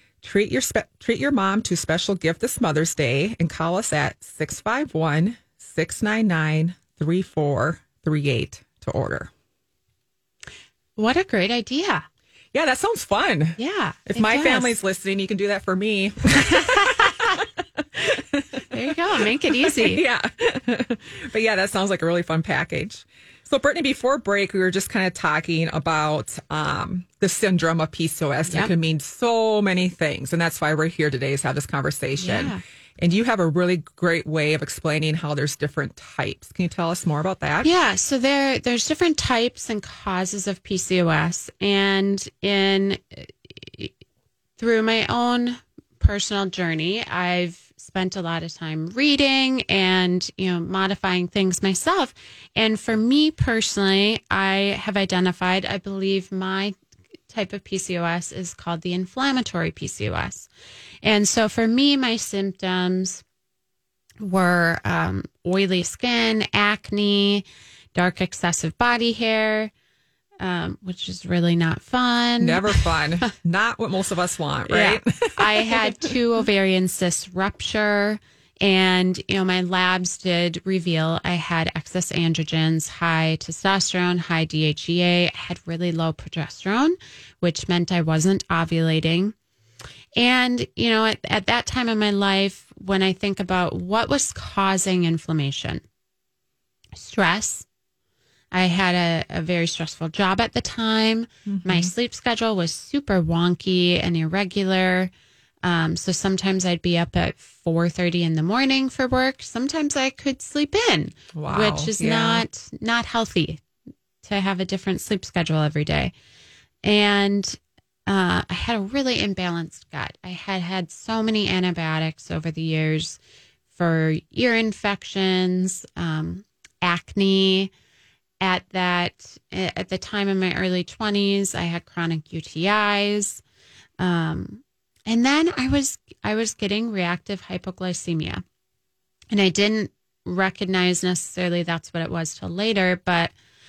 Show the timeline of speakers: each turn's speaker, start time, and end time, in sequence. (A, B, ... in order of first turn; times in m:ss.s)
0:00.2-0:09.3 A
0:11.0-0:12.0 B
0:12.5-0:37.7 A
0:13.6-0:14.7 B
0:16.4-0:17.4 B
0:18.7-0:20.0 B
0:32.2-0:32.6 B
0:37.6-0:44.0 B
0:44.6-0:56.8 B
0:57.3-1:00.5 B
1:01.0-1:03.2 B
1:04.2-1:09.7 B
1:10.4-1:12.8 B
1:12.4-1:16.1 A
1:14.7-1:29.3 B
1:30.2-1:35.8 B
1:36.9-1:37.7 B
1:38.5-1:45.1 B
1:41.4-1:41.9 A
1:45.6-1:53.6 B
1:51.3-1:52.4 A
1:54.2-1:56.1 B
1:56.8-2:03.2 B
2:03.7-2:07.7 B
2:08.4-2:13.4 B
2:14.0-2:18.4 B
2:19.3-2:23.3 B